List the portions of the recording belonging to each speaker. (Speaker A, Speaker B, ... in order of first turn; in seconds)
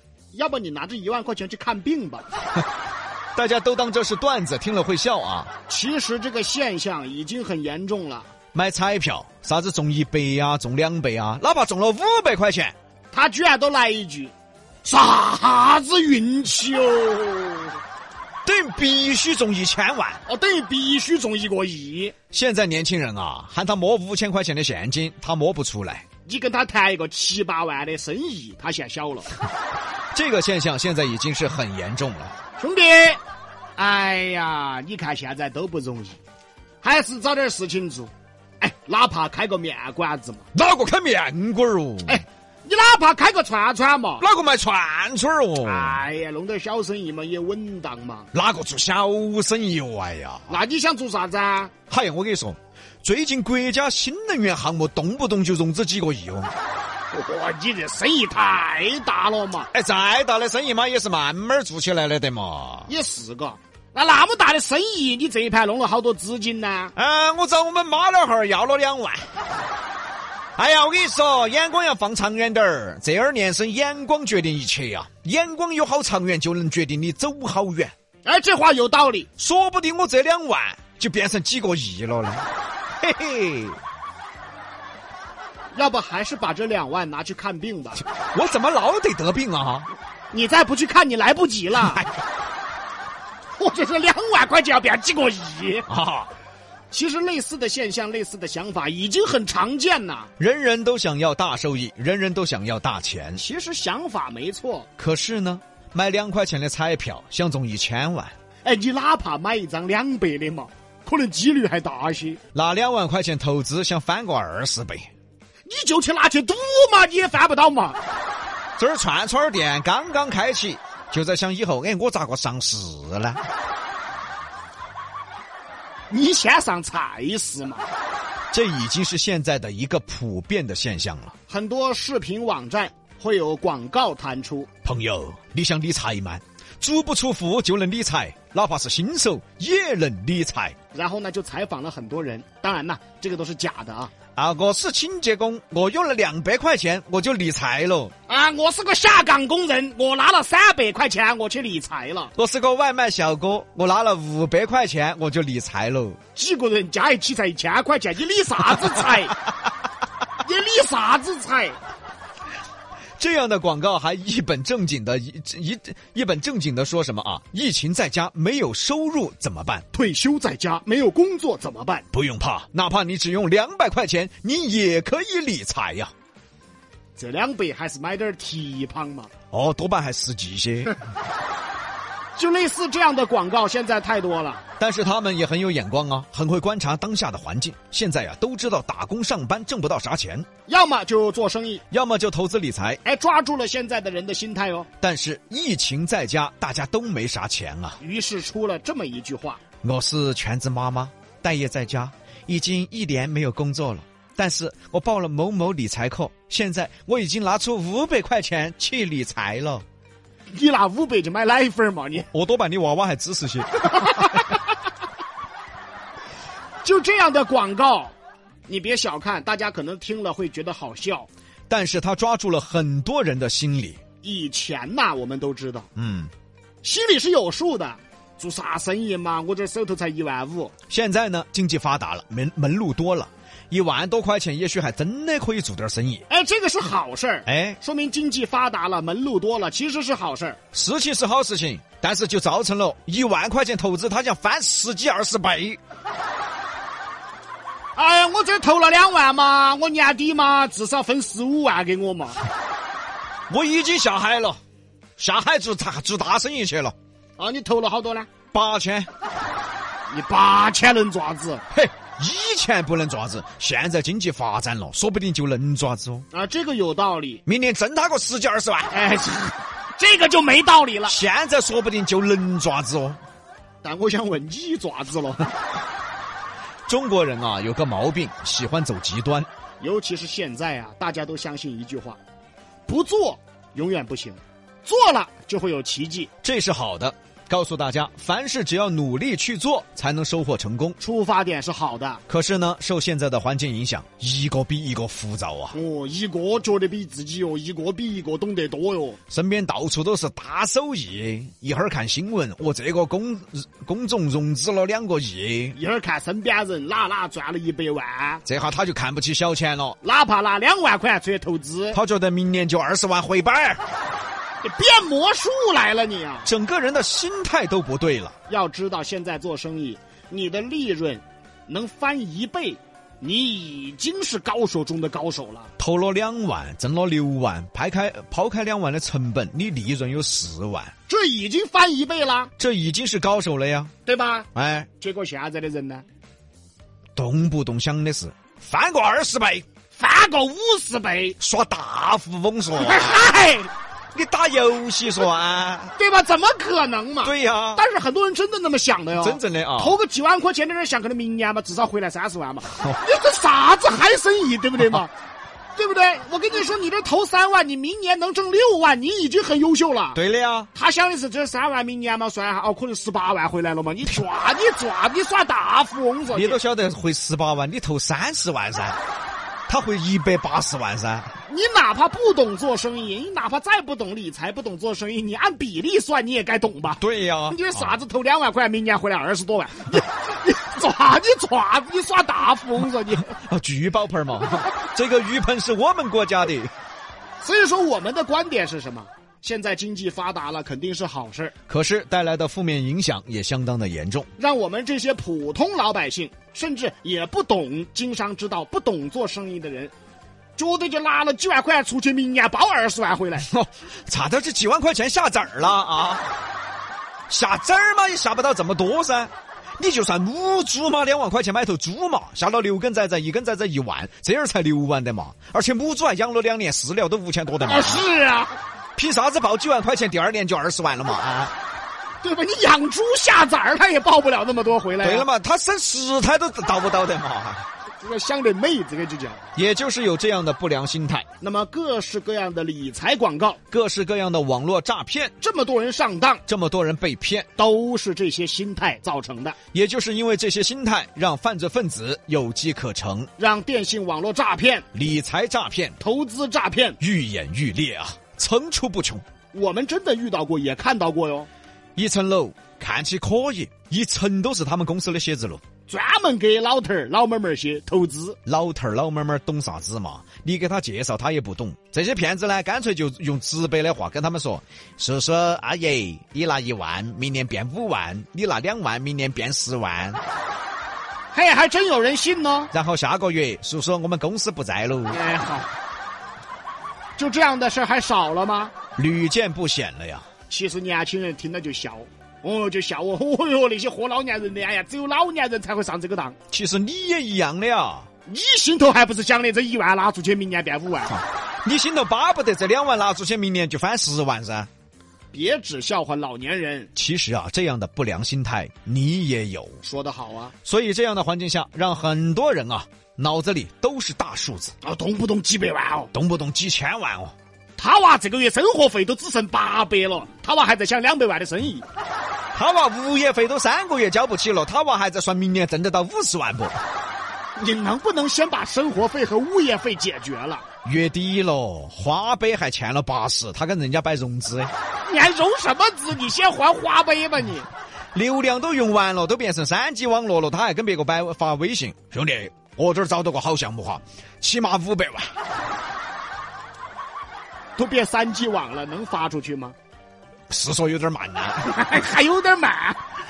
Speaker A: 0.3-2.3, 5.7-8.3, 13.1-14.3, 14.8-17.8, 20.3-22.1, 26.3-29.3, 32.6-33.2, 33.8-36.2, 36.8-40.5, 42.1-44.2, 45.6-48.3, 50.5-51.7, 57.1-59.7, 62.9-66.9, 78.2-79.3, 85.8-88.0, 90.3-92.0, 93.6-95.9, 96.9-100.3, 103.4-104.9, 108.6-112.4, 115.7-118.0, 126.1-127.8, 131.5-134.7, 140.9-144.1, 148.3-152.3, 156.4-159.4, 160.4-161.8, 169.9-172.0, 177.2-179.3, 182.4-184.6, 190.7-191.8, 193.1-194.9, 198.0-199.6, 210.5-212.3, 216.8-218.1, 218.7-221.3, 224.2-225.9, 226.8-230.7, 236.3-240.6, 248.0-252.4, 257.4-258.3, 260.1-261.6, 266.3-267.4, 268.9-271.2, 273.8-275.5, 279.8-282.2, 282.9-286.3, 291.0-292.2, 295.7-299.2, 305.7-308.4, 310.0-312.0, 314.6-316.5, 318.5-325.7, 331.1-332.5, 334.1-336.0, 339.9-341.4, 342.8-343.7, 346.0-355.1, 355.8-360.2, 360.8-366.6, 371.5-383.3, 387.4-391.5, 394.4-399.9, 400.6-403.5, 417.6-418.6, 422.2-425.3, 428.0-429.4, 431.4-433.6, 435.4-436.4, 437.6-439.6, 443.4-444.9, 446.0-447.0, 449.5-451.5, 455.9-458.4, 471.3-472.7, 475.1-475.7, 477.2-478.7, 480.5-486.4, 488.3-491.2, 495.3-496.9, 499.8-500.5, 504.8-506.1, 507.8-511.9, 517.6-520.7, 525.1-527.7, 537.8-539.8, 541.6-543.0
Speaker B: 3.4-5.5, 8.5-12.7, 18.4-20.2, 22.3-26.1, 30.1-32.4, 40.5-42.2, 44.2-46.0, 48.3-50.6, 51.9-56.5, 59.7-62.9, 67.0-69.3, 70.6-77.9, 79.4-82.5, 83.0-83.8, 88.2-89.9, 91.8-92.1, 95.9-96.3, 100.4-103.4, 105.0-108.3, 112.5-115.1, 118.8-123.4, 128.5-131.3, 134.8-140.8, 144.4-148.1, 152.4-156.2, 163.2-169.8, 172.1-176.1, 179.5-181.0, 184.8-190.5, 191.9-193.0, 195.0-198.0, 199.8-209.8, 212.3-214.4, 221.7-224.0, 226.0-226.3, 230.9-236.2, 237.5-237.8, 240.7-245.8, 253.5-254.6, 255.2-256.9, 258.5-259.1, 261.7-266.3, 267.5-268.9, 271.1-273.2, 276.9-279.5, 286.4-291.0, 292.3-295.8, 299.3-305.8, 308.5-310.0, 311.9-313.8, 316.4-318.4, 325.8-330.9, 332.6-333.9, 334.6-334.9, 337.2-339.7, 341.4-343.3, 344.1-345.9, 347.2-347.8, 349.2-350.0, 360.1-360.7, 366.3-369.0, 369.7-371.3, 377.0-377.9, 383.3-386.7, 391.7-394.3, 403.4-406.3, 407.3-418.1, 419.0-421.5, 425.0-427.7, 429.6-431.3, 433.7-435.3, 436.5-437.5, 439.7-443.3, 444.9-446.0, 447.0-449.2, 452.0-455.6, 458.5-470.2, 472.7-475.2, 479.0-480.3, 486.5-488.1, 491.1-494.7, 497.0-499.8, 500.6-504.7, 506.1-507.3, 512.5-516.8, 520.9-524.7, 528.1-535.4, 540.5-541.7